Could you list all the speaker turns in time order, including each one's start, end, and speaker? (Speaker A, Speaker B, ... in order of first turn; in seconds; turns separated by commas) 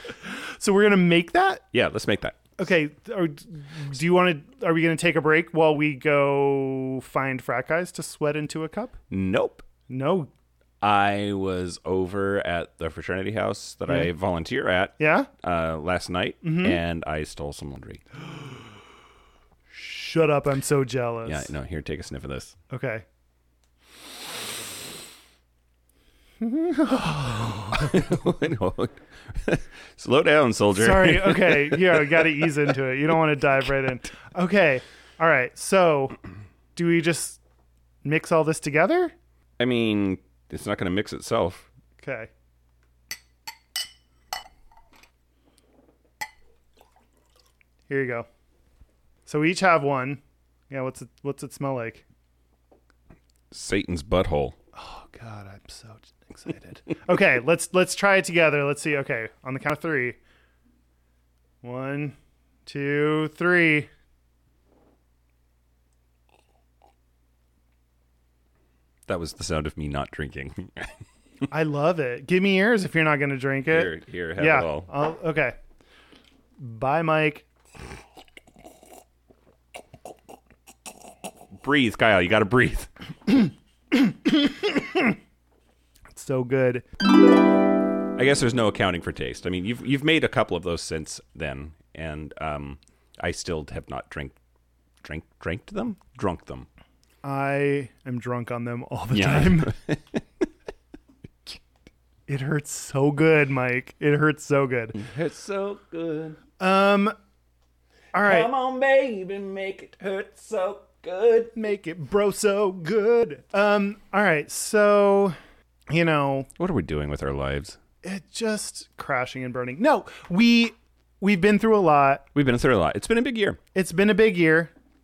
Speaker A: 0.2-1.6, Speaker B: 1.7-2.4, Speaker A: 2.6-9.0, Speaker B: 9.1-9.6, Speaker A: 9.9-10.3, Speaker B: 10.8-18.0, Speaker A: 15.0-15.3, Speaker A: 16.4-16.8, Speaker A: 19.7-21.5, Speaker B: 21.2-22.6, Speaker A: 22.7-23.1, Speaker A: 26.4-28.1, Speaker B: 27.7-32.5, Speaker A: 30.8-36.1, Speaker A: 36.8-37.4, Speaker A: 38.0-39.1, Speaker B: 39.6-41.7, Speaker A: 42.0-42.3, Speaker A: 47.9-48.3, Speaker A: 49.3-52.0, Speaker B: 53.5-54.6, Speaker A: 54.8-60.2, Speaker A: 61.6-63.9, Speaker B: 69.1-71.0, Speaker A: 71.5-75.5, Speaker B: 73.7-74.9, Speaker A: 76.6-77.5, Speaker B: 81.6-82.9, Speaker A: 83.9-85.2, Speaker A: 86.1-86.8, Speaker B: 88.2-94.4, Speaker B: 95.0-96.7, Speaker A: 97.2-99.7, Speaker B: 99.1-100.5, Speaker A: 102.3-105.0, Speaker B: 104.9-106.4, Speaker A: 106.6-107.1, Speaker A: 108.1-108.5, Speaker B: 108.2-111.5, Speaker A: 111.5-115.4, Speaker A: 115.9-116.5, Speaker B: 116.6-117.8, Speaker A: 118.0-122.3, Speaker B: 122.3-123.6, Speaker A: 123.8-124.7